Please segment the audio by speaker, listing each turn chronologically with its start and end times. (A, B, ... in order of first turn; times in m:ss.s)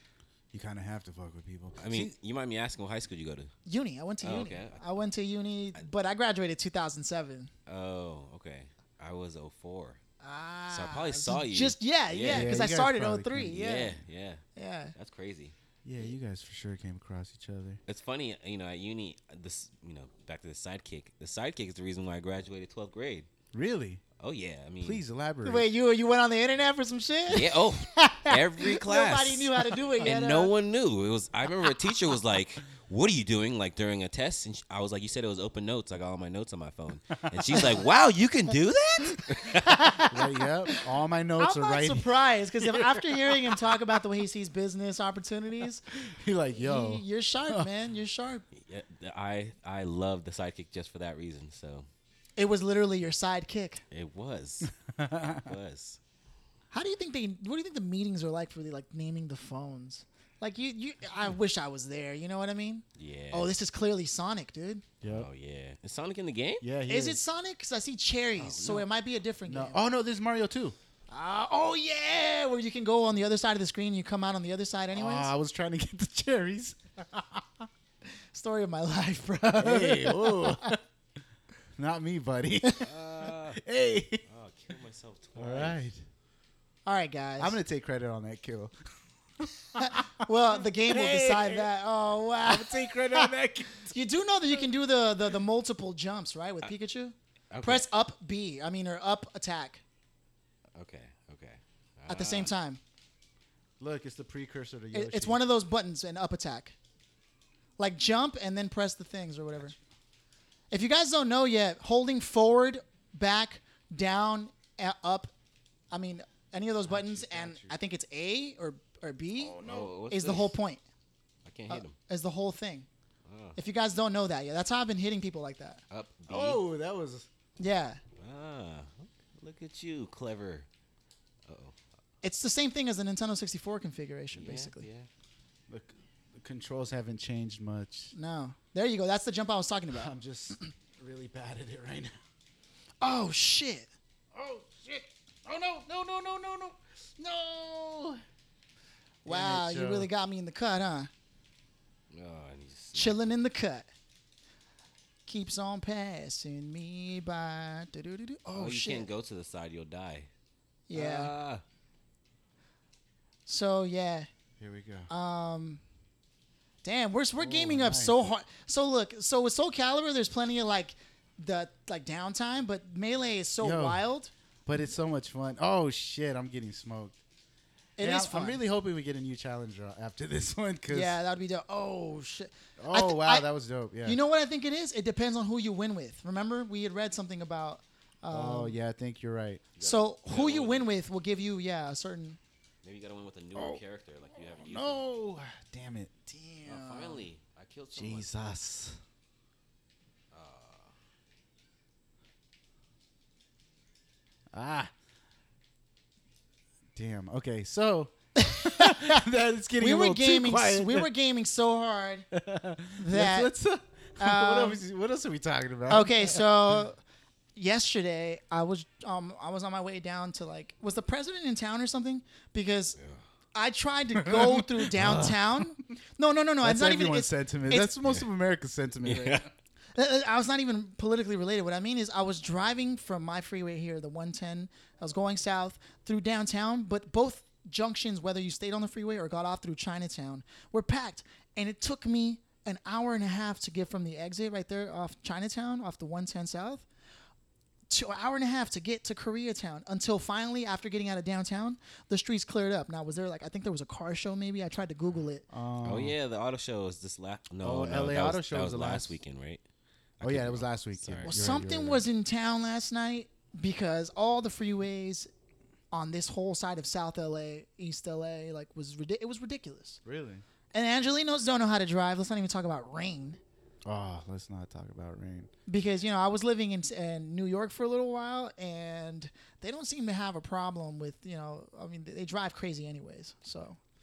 0:00.5-0:02.1 A
0:01.8-0:03.5 B
0:03.7-0:07.5 C
0:04.2-0:04.8 B
0:07.7-0:10.0 B
0:10.2-0:14.0 C
0:10.7-0:12.5 B
0:12.3-0:13.7 A
0:13.6-0:14.4 B
0:14.6-0:14.9 C
0:15.0-0:15.6 B
0:15.8-0:17.8 A
0:17.9-0:23.3 B
0:23.5-0:24.0 A
0:24.2-0:25.0 B
0:24.8-0:25.7 A
0:25.4-0:30.5 C
0:27.3-0:39.8 B
0:37.4-0:37.7 A
0:39.4-0:40.8 C
0:40.1-0:42.1 A
0:41.4-0:45.8 C
0:46.0-0:47.7 A
0:46.5-0:48.4 C
0:48.5-0:51.9 B
0:52.4-0:53.8 C
0:53.9-0:54.7 B
0:54.7-0:55.5 A
0:55.3-0:56.0 B
0:56.7-1:04.8 C
1:03.0-1:03.5 B
1:05.0-1:05.3 A
1:05.1-1:06.7 B
1:06.6-1:07.2 A
1:06.9-1:09.8 C
1:08.4-1:08.9 B
1:09.5-1:10.8 A
1:11.1-1:15.3 C
1:14.9-1:17.7 A
1:18.3-1:20.8 C
1:19.6-1:20.8 A
1:21.8-1:24.2 A
1:22.8-1:23.6 B
1:24.3-1:25.8 B
1:25.4-1:26.0 A
1:26.9-1:27.6 C
1:27.4-1:28.9 A
1:29.4-1:31.7 A
1:29.8-1:33.3 C
1:32.4-1:34.0 A
1:33.9-1:39.8 C
1:37.5-1:37.9 B
1:40.8-1:42.5 B
1:42.1-1:42.8 C
1:43.8-1:45.4 A
1:44.9-1:46.8 C
1:47.8-1:49.7 C
1:50.7-1:55.3 C
1:55.9-2:00.8 C
1:56.9-1:57.7 A
1:59.4-1:59.9 A
1:59.6-2:00.6 B
2:01.4-2:02.0 B
2:01.7-2:02.9 C
2:03.3-2:03.6 B
2:03.6-2:05.8 C
2:05.9-2:06.6 B
2:06.3-2:07.3 A
2:07.6-2:08.0 C
2:08.2-2:10.7 B
2:11.5-2:11.8 B
2:12.2-2:14.9 C
2:14.3-2:15.1 B
2:15.7-2:18.1 A
2:18.1-2:20.1 C
2:20.0-2:22.2 A
2:23.0-2:23.9 C
2:24.3-2:28.2 A
2:29.2-2:31.1 C
2:29.3-2:30.1 A
2:32.1-2:33.2 B
2:33.0-2:33.9 C
2:35.3-2:39.1 C
2:38.6-2:40.3 B
2:40.9-2:41.3 C
2:40.9-2:41.6 B
2:43.5-2:44.3 C
2:44.6-2:45.1 A
2:45.1-2:45.8 C
2:46.8-2:54.3 C
2:47.4-2:48.2 A
2:53.6-2:54.0 A
2:54.7-2:57.2 A
2:58.0-2:58.6 C
2:58.0-3:01.2 A
3:00.9-3:03.5 C
3:02.8-3:04.2 A
3:04.0-3:08.8 C
3:08.3-3:09.7 A
3:09.8-3:10.9 B
3:09.8-3:12.4 C
3:12.8-3:15.0 B
3:13.6-3:13.8 A
3:14.4-3:16.1 A
3:16.3-3:17.3 C
3:16.7-3:18.3 B
3:18.0-3:19.0 A
3:20.3-3:20.9 B
3:24.5-3:24.9 A
3:27.0-3:31.1 A
3:28.4-3:29.2 C
3:29.8-3:32.3 C
3:32.3-3:36.8 A
3:33.0-3:33.5 C
3:34.2-3:34.8 C
3:35.9-3:37.0 C
3:37.6-3:43.0 C
3:43.6-3:47.9 C
3:44.2-3:45.7 A
3:46.6-3:49.5 A
3:49.0-3:49.5 B
3:50.0-4:06.9 C
4:07.9-4:15.5 C
4:15.5-4:16.2 A
4:15.8-4:19.6 B
4:17.6-4:19.2 A
4:20.2-4:21.5 B
4:20.2-4:22.0 A
4:21.2-4:25.3 C
4:25.9-4:30.0 C
4:30.0-4:30.4 A
4:30.7-4:33.4 C
4:33.9-4:35.5 A
4:35.7-4:43.8 C